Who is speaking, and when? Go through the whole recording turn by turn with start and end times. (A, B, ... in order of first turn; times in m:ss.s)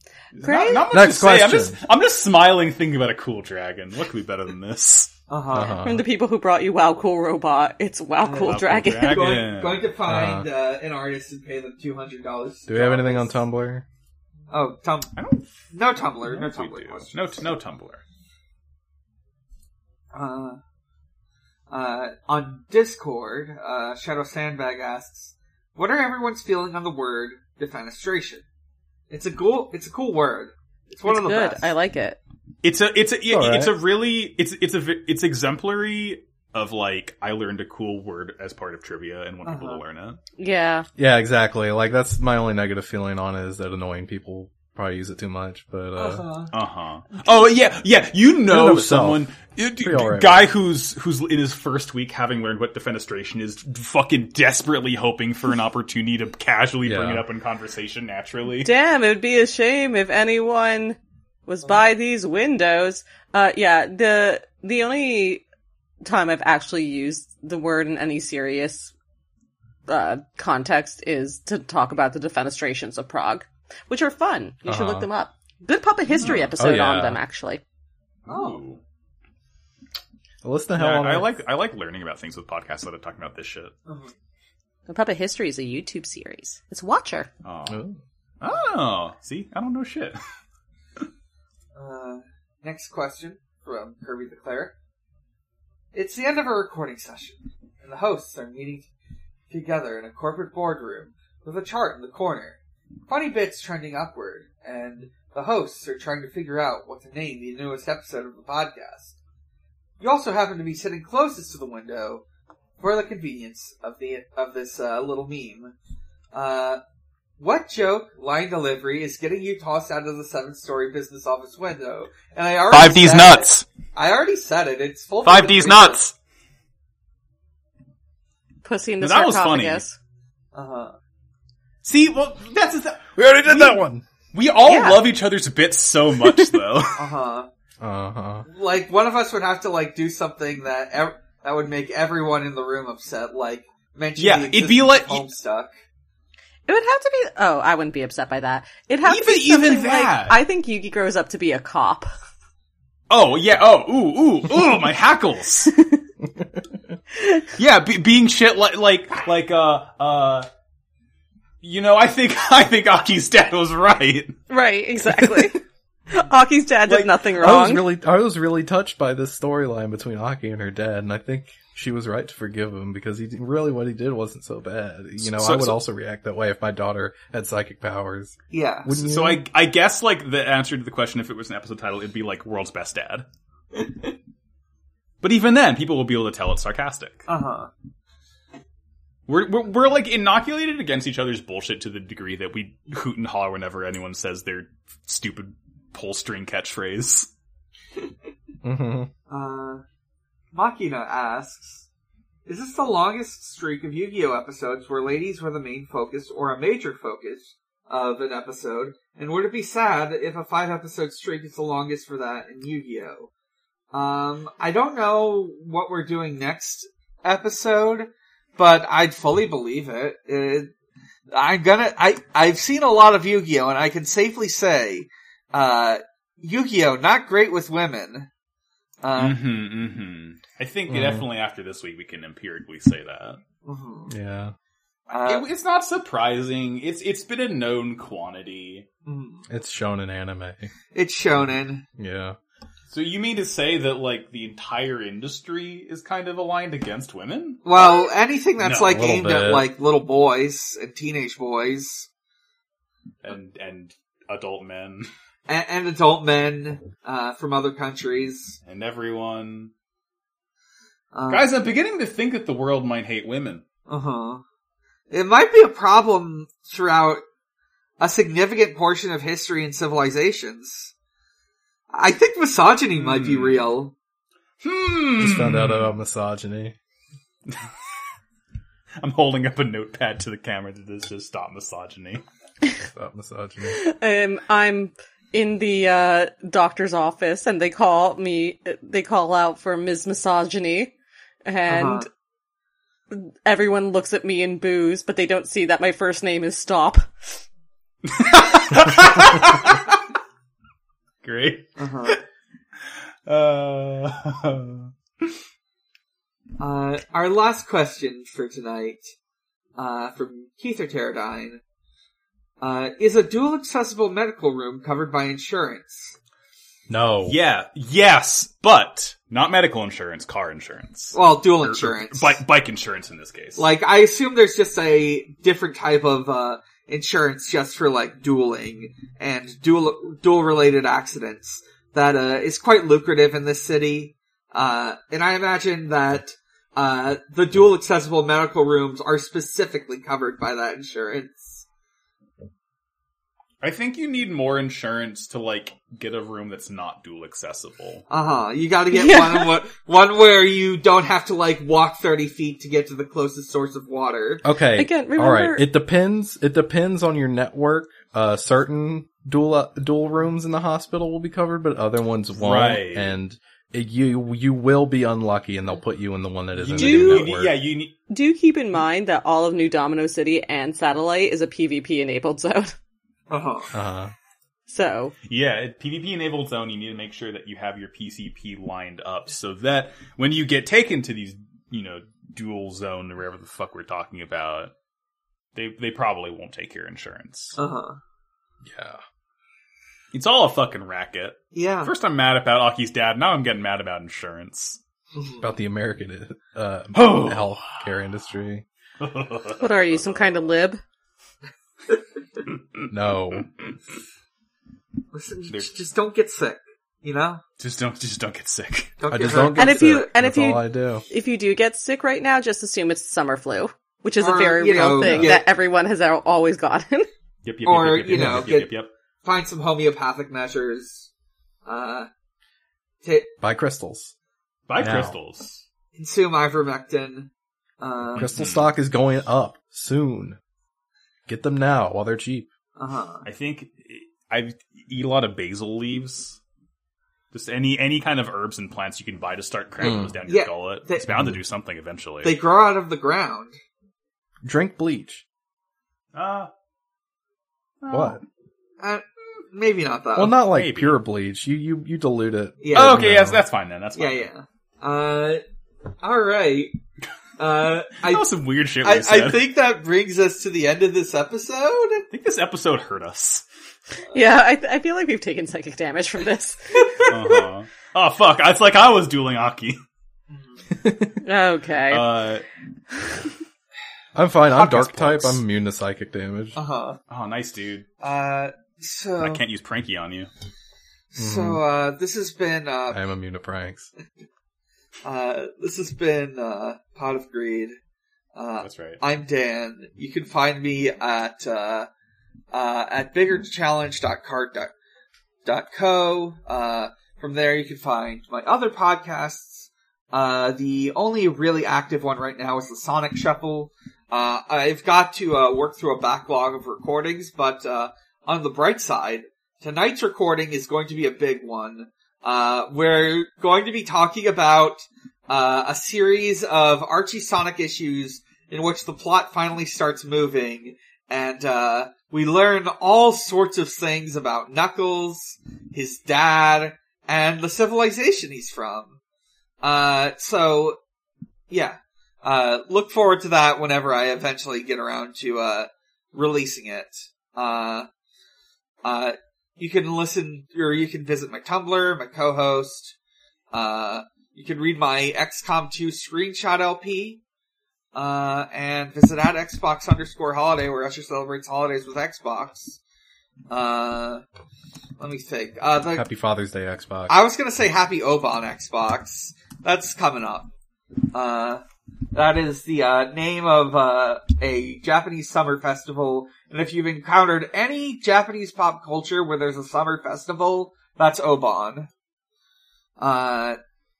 0:00.4-0:00.9 A
0:00.4-0:05.1 B
0:00.9-0:01.8 C
0:05.3-0:05.8 D
0:05.5-0:06.0 C
0:05.8-0:09.3 A
0:08.2-0:13.4 D
0:08.4-0:09.9 B
0:10.1-0:10.4 C
0:12.7-0:13.8 C
0:14.5-0:15.1 D
0:15.2-0:15.5 B
0:15.7-0:17.2 D
0:16.2-0:18.0 B
0:20.1-0:20.6 D
0:21.7-0:28.4 D
0:29.1-0:31.7 D
0:31.0-0:32.2 A
0:32.6-0:40.2 B
0:33.3-0:33.8 C
0:39.4-0:39.8 D
0:40.4-0:40.9 A
0:41.0-0:46.2 C
0:46.0-0:46.5 D
0:46.5-0:58.7 B
0:48.5-0:49.3 C
0:49.8-0:50.5 C
0:56.8-0:57.2 C
0:58.6-1:05.4 A
1:06.0-1:08.9 A
1:09.9-1:17.6 A
1:14.7-1:15.1 C
1:16.2-1:16.5 B
1:16.6-1:17.2 C
1:18.2-1:18.8 B
1:18.3-1:18.6 D
1:20.4-1:21.3 C
1:20.8-1:23.7 B
1:23.9-1:24.1 D
1:24.9-1:27.3 A
1:27.4-1:27.8 B
1:27.7-1:28.0 C
1:28.4-1:30.2 B
1:31.7-1:34.7 D
1:35.9-1:38.9 D
1:39.5-1:49.1 D
1:50.0-1:52.2 D
1:52.8-1:55.7 D
1:56.3-1:56.8 D
1:57.4-2:06.0 D
2:02.7-2:03.6 B
2:05.2-2:06.1 B
2:08.6-2:10.0 A
2:09.0-2:09.8 B
2:10.5-2:11.0 D
2:11.8-2:17.1 B
2:13.2-2:14.0 C
2:14.6-2:15.0 A
2:16.2-2:16.6 A
2:17.0-2:17.5 D
2:17.8-2:18.4 C
2:18.5-2:25.7 D
2:24.2-2:25.3 B
2:26.7-2:32.1 A
2:29.0-2:30.4 B
2:33.1-2:35.7 B
2:37.5-2:40.5 B
2:41.6-2:44.4 B
2:44.5-2:45.6 A
2:46.1-2:47.9 A
2:46.9-2:47.2 B
2:47.4-2:59.4 C
2:55.2-2:55.8 B
2:58.5-2:58.9 D
2:58.9-3:03.3 B
3:05.2-3:07.2 B
3:07.3-3:07.7 D
3:09.3-3:17.3 B
3:18.6-3:19.1 C
3:19.3-3:19.8 D
3:20.5-3:21.9 D
3:22.4-3:33.3 D
3:33.9-3:40.7 D
3:41.3-3:48.3 D
3:49.0-3:49.4 D
3:49.2-3:53.4 B
3:50.9-3:51.3 C
3:53.6-3:54.1 D
3:54.1-3:54.5 C
3:55.1-3:55.4 D
3:55.2-3:58.9 B
3:59.0-3:59.4 D
3:59.5-4:00.7 C
4:00.9-4:01.8 D
4:02.0-4:02.4 C
4:02.9-4:07.6 B
4:07.6-4:12.1 D
4:08.7-4:09.7 C
4:13.2-4:15.1 B
4:15.5-4:18.6 D
4:18.7-4:19.7 B
4:21.1-4:21.5 D
4:21.3-4:23.6 B
4:23.9-4:24.4 D
4:25.1-4:27.2 D
4:28.0-4:30.9 D
4:31.9-4:33.9 D
4:33.0-4:33.6 B
4:34.6-4:35.9 B
4:35.2-4:36.7 C
4:39.0-4:42.2 B
4:42.9-4:43.8 C
4:43.6-4:50.9 A
4:51.4-4:52.1 A
4:51.7-4:52.1 D
4:53.1-4:57.4 A
4:58.0-5:00.0 B
5:01.2-5:02.2 B
5:01.8-5:02.2 D
5:03.3-5:05.3 B
5:06.6-5:09.1 D
5:09.8-5:11.6 D
5:12.6-5:16.2 D
5:16.9-5:17.4 C
5:17.3-5:23.6 B
5:21.1-5:22.4 D
5:23.6-5:41.6 D
5:43.6-5:48.0 B
5:48.1-5:54.4 D
5:48.9-5:49.6 A
5:54.4-6:07.6 C
5:54.8-5:55.7 A
6:02.3-6:03.2 B
6:06.6-6:08.0 B
6:06.7-6:07.3 A
6:08.1-6:12.8 A
6:13.3-6:13.7 D
6:13.7-6:14.1 C
6:14.7-6:15.1 A
6:15.2-6:24.7 B
6:25.6-6:27.6 B
6:27.6-6:28.0 D
6:28.6-6:29.0 C
6:30.1-6:34.8 B
6:31.6-6:31.9 D
6:35.1-6:35.4 D
6:35.4-6:38.6 C
6:36.9-6:37.8 B
6:39.0-6:40.4 B
6:39.6-6:40.8 A
6:42.9-6:43.5 C
6:45.1-6:47.4 D
6:47.6-6:49.0 B
6:49.0-6:50.0 D
6:49.1-6:51.0 C
6:49.6-6:57.1 A
6:54.2-6:55.4 D
6:55.0-6:55.4 C
6:57.4-6:58.9 B
6:57.7-6:58.7 D
6:58.1-6:58.5 C
6:59.2-7:01.1 D
7:01.6-7:02.1 D
7:03.0-7:03.3 D
7:03.4-7:04.1 C
7:04.7-7:05.6 B
7:04.8-7:05.1 C
7:06.0-7:08.3 D
7:08.1-7:08.7 B
7:08.2-7:10.4 C
7:11.3-7:12.5 C
7:12.8-7:13.3 D
7:13.2-7:16.4 B
7:17.3-7:22.3 B
7:19.8-7:20.1 C
7:19.8-7:21.2 D
7:22.2-7:23.6 D
7:24.4-7:25.2 C
7:26.1-7:26.5 B
7:27.8-7:28.2 B
7:27.9-7:28.2 C
7:28.8-7:30.3 D
7:30.1-7:33.4 C
7:30.5-7:31.0 B
7:32.6-7:33.0 D
7:32.7-7:34.3 B
7:34.0-7:35.4 D
7:36.0-7:36.7 D
7:37.4-7:38.3 D
7:38.0-7:39.5 B
7:38.8-7:42.0 D
7:42.1-7:43.4 B
7:44.1-7:47.3 A
7:47.0-7:49.8 B
7:50.3-7:50.6 D
7:50.8-7:51.2 C
7:51.2-7:52.0 A
7:51.9-7:52.4 B
7:54.1-7:56.6 C
7:54.5-7:55.4 B
7:56.6-7:57.0 D
7:57.1-7:57.9 B
7:58.0-7:59.4 D
7:59.2-8:00.3 B
8:01.1-8:03.0 D
8:01.2-8:01.6 C
8:02.9-8:03.9 C
8:05.0-8:07.8 D
8:08.3-8:11.9 D
8:08.6-8:09.0 B
8:12.5-8:14.7 D
8:15.4-8:49.0 D
8:49.6-8:50.8 D
8:51.5-8:57.9 D
8:58.8-9:03.0 D
9:03.5-9:07.2 D
9:07.9-9:12.8 D
9:13.5-9:14.2 D
9:15.0-9:16.0 D
9:15.9-9:17.2 C
9:17.1-9:20.5 D
9:21.1-9:21.6 D
9:22.1-9:31.9 D
9:33.0-9:33.6 D